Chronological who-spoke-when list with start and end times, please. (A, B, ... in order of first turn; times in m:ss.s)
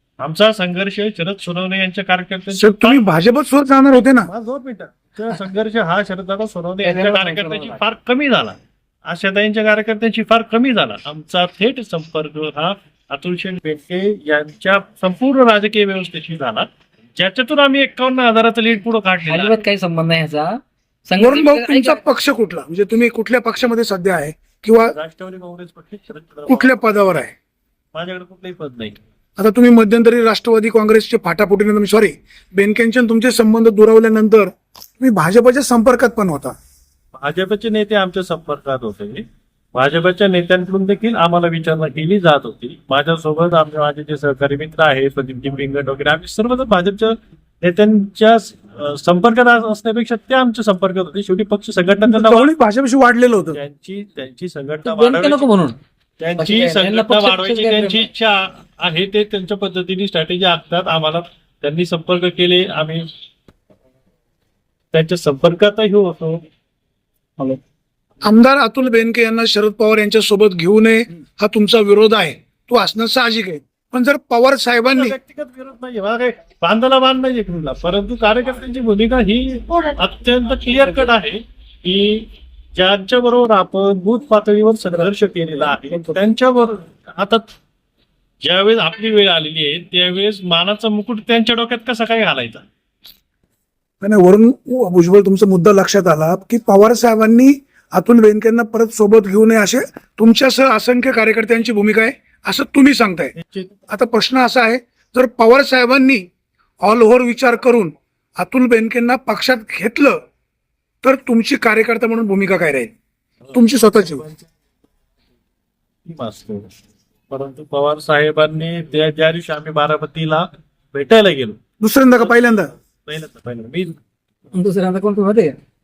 0:00.2-0:03.0 A
0:02.5-0:04.3 B
0:04.2-0:19.6 A
0:19.3-0:22.0 C
0:21.2-0:24.9 B
0:24.9-0:26.9 A
0:26.5-0:27.3 B
0:27.9-0:29.0 A
0:29.4-0:36.5 B
0:37.1-0:52.5 A
0:52.0-0:53.6 B
0:53.4-0:55.4 A
0:54.8-0:55.8 C
0:56.2-1:03.1 A
0:56.4-0:58.0 C
1:04.9-1:06.4 A
1:08.2-1:15.1 B
1:14.8-1:27.5 A
1:28.4-1:32.6 A
1:34.0-1:43.3 B
1:43.4-1:43.8 A
1:43.9-1:46.3 B
1:46.8-1:50.2 B
1:51.0-1:52.9 B
1:53.5-1:54.4 A
1:53.5-1:54.2 B
1:56.0-1:56.7 A
1:57.3-2:01.6 A
2:01.8-2:02.7 B
2:03.0-2:04.0 A
2:04.5-2:05.6 C